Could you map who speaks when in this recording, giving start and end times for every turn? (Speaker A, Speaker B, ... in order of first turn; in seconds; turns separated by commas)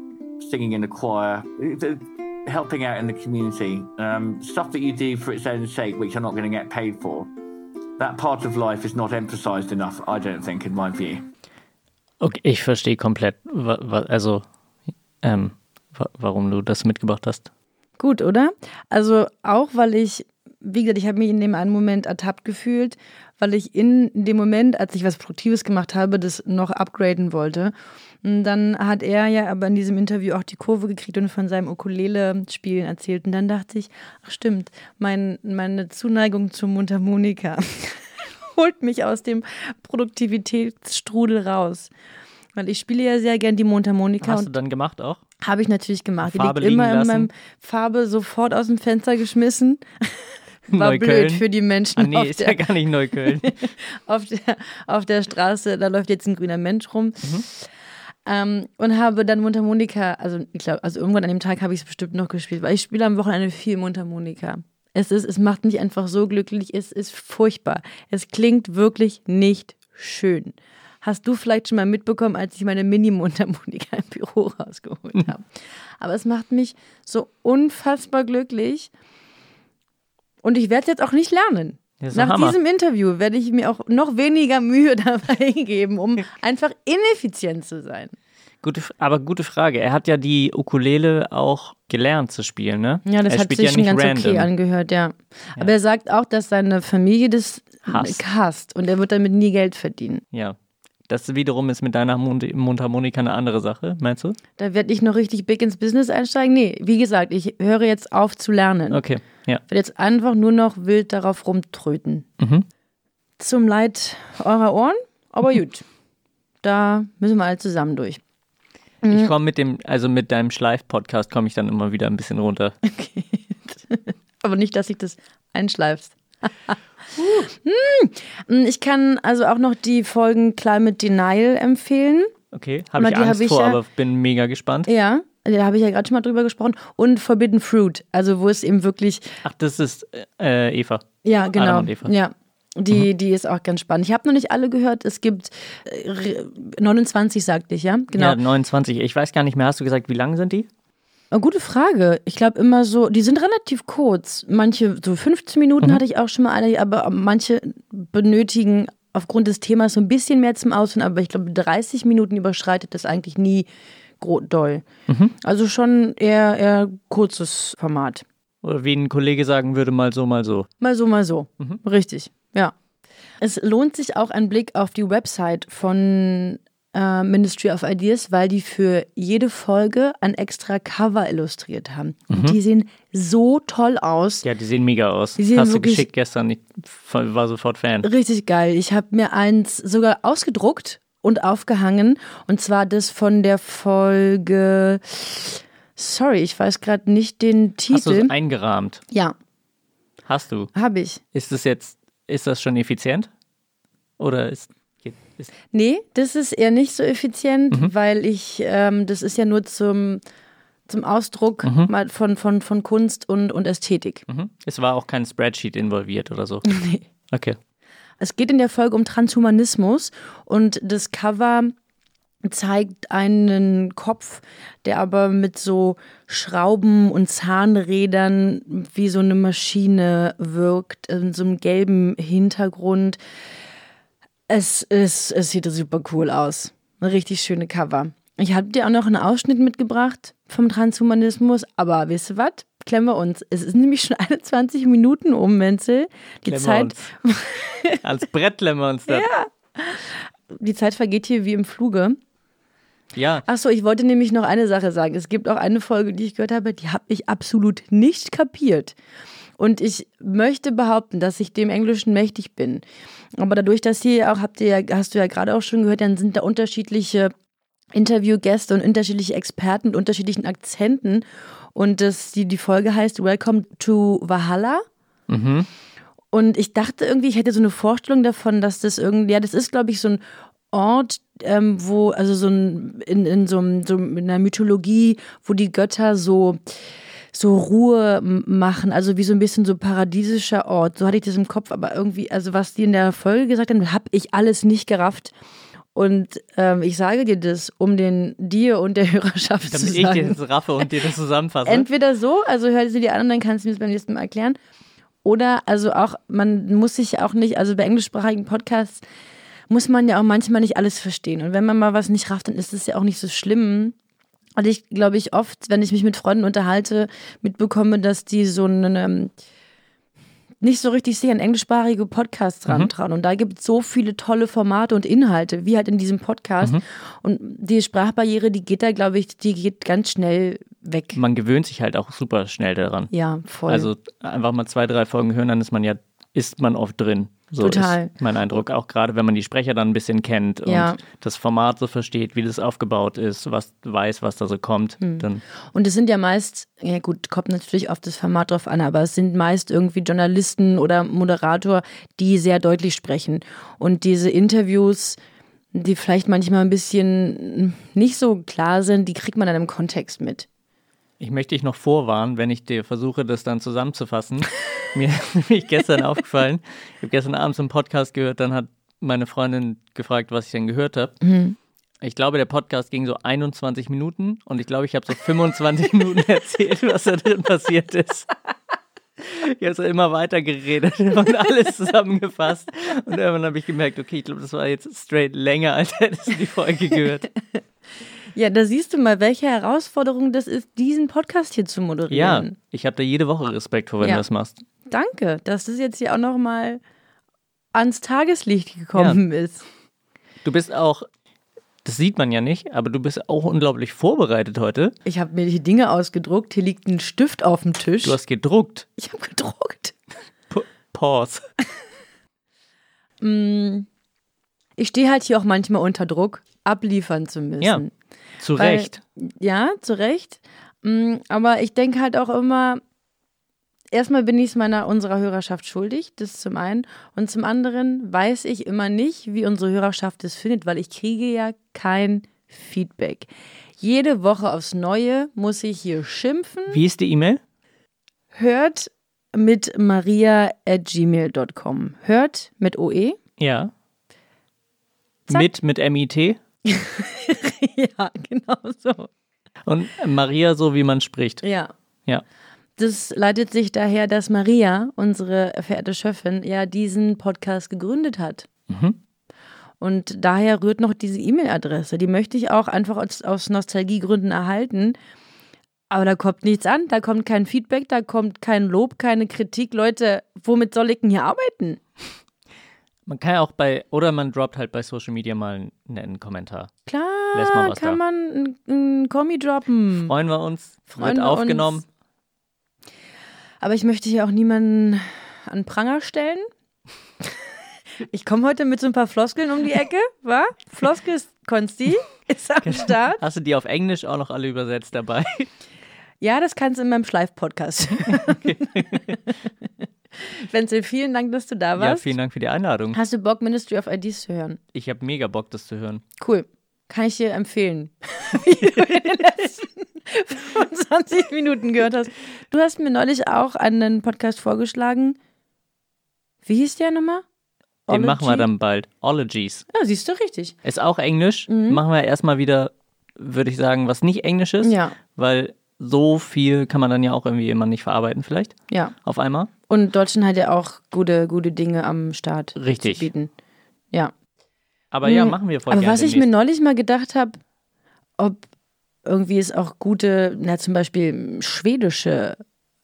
Speaker A: 0.4-7.3, Speaker A: 8.0-11.2, Speaker B: 12.2-14.4, Speaker B: 15.2-17.5, Speaker C: 18.0-41.9, Speaker C: 42.5-44.5, Speaker B: 44.2-45.2, Speaker C: 45.4-52.6, Speaker B: 46.2-47.3, Speaker B: 50.7-51.4, Speaker B: 52.0-53.6, Speaker C: 53.1-57.6, Speaker C: 58.2-75.5, Speaker C: 76.0-78.9, Speaker C: 80.4-88.1, Speaker B: 82.0-82.5, Speaker B: 88.6-94.5, Speaker C: 93.0-100.2, Speaker B: 97.8-98.2, Speaker B: 101.1-104.3, Speaker C: 104.6-109.0, Speaker B: 108.9-109.6, Speaker C: 109.7-112.2, Speaker B: 112.4-112.6, Speaker C: 113.4-115.8, Speaker C: 116.6-118.2, Speaker C: 119.0-119.3, Speaker B: 119.1-122.8, Speaker C: 122.8-126.8, Speaker B: 127.2-127.5, Speaker C: 127.5-132.3, Speaker B: 132.5-134.9, Speaker C: 132.9-133.8, Speaker C: 134.9-139.3, Speaker B: 139.4-142.1, Speaker C: 141.2-148.3, Speaker B: 148.1-150.7, Speaker C: 151.3-163.7, Speaker C: 164.2-164.8, Speaker B: 165.1-165.3, Speaker C: 165.4-168.2, Speaker B: 168.6-170.7, Speaker C: 170.8-172.7, Speaker C: 173.4-184.4, Speaker B: 182.3-182.6, Speaker B: 184.4-188.1, Speaker C: 185.4-186.0, Speaker C: 188.0-198.3, Speaker B: 197.9-199.0, Speaker B: 200.3-200.7, Speaker C: 200.7-201.2, Speaker B: 201.3-203.3, Speaker B: 204.2-205.5, Speaker C: 205.7-210.2, Speaker C: 210.9-214.2, Speaker B: 211.6-211.9, Speaker B: 214.3-216.7, Speaker C: 216.7-217.0, Speaker B: 217.3-217.6, Speaker C: 218.2-221.7, Speaker C: 222.4-233.2, Speaker C: 234.5-248.0, Speaker B: 246.5-247.1, Speaker B: 248.0-249.2, Speaker C: 249.1-252.2, Speaker B: 253.1-253.4, Speaker C: 253.4-258.9, Speaker C: 259.6-262.8, Speaker C: 263.4-267.3, Speaker C: 267.9-271.2, Speaker C: 271.7-274.8, Speaker B: 275.3-275.7, Speaker C: 276.3-280.2, Speaker C: 280.7-286.6, Speaker C: 287.3-295.3, Speaker C: 295.9-300.4, Speaker B: 299.7-301.9, Speaker C: 301.6-304.6, Speaker C: 305.2-309.0, Speaker C: 309.7-313.9, Speaker C: 314.6-319.3, Speaker C: 320.6-331.2, Speaker B: 331.1-333.1, Speaker C: 333.1-333.9, Speaker B: 333.7-345.4, Speaker C: 337.6-338.1, Speaker C: 340.6-341.0, Speaker C: 345.0-355.2, Speaker C: 355.7-360.5, Speaker B: 361.2-371.2, Speaker C: 371.2-371.5, Speaker B: 372.0-378.3, Speaker B: 379.2-387.3, Speaker C: 388.3-392.5, Speaker B: 392.1-394.6, Speaker C: 394.9-396.8, Speaker C: 397.7-399.6, Speaker B: 400.4-401.1, Speaker B: 401.8-404.9, Speaker C: 405.1-408.2, Speaker B: 408.0-408.9, Speaker C: 409.0-409.9, Speaker B: 410.5-411.4, Speaker C: 413.2-413.9, Speaker C: 414.8-417.9, Speaker B: 418.4-419.0, Speaker C: 418.6-422.8, Speaker C: 423.9-433.3, Speaker C: 433.8-436.8, Speaker B: 436.7-437.4, Speaker C: 438.3-443.2, Speaker B: 443.4-443.7, Speaker B: 445.3-446.4, Speaker C: 446.7-449.1, Speaker B: 449.6-451.4, Speaker C: 451.4-451.7, Speaker C: 452.8-458.5, Speaker B: 458.7-459.0, Speaker C: 459.8-464.9, Speaker C: 465.9-471.8, Speaker B: 473.1-476.7, Speaker C: 476.9-480.1, Speaker B: 477.3-478.0, Speaker B: 480.1-481.8, Speaker C: 480.9-481.8, Speaker C: 483.6-486.5, Speaker C: 488.1-493.2, Speaker B: 492.6-495.5, Speaker C: 496.2-498.6, Speaker B: 498.1-499.1, Speaker C: 500.2-502.1, Speaker B: 501.8-503.0, Speaker C: 502.9-504.6, Speaker B: 504.7-506.0, Speaker C: 506.2-515.2, Speaker C: 516.4-517.2, Speaker C: 517.9-518.5, Speaker B: 517.9-519.6, Speaker C: 519.7-520.5, Speaker B: 520.6-529.5, Speaker C: 521.5-521.8, Speaker C: 524.6-524.9, Speaker C: 529.7-533.3, Speaker B: 532.5-533.1, Speaker B: 534.9-536.3, Speaker C: 535.0-537.4, Speaker C: 539.0-542.4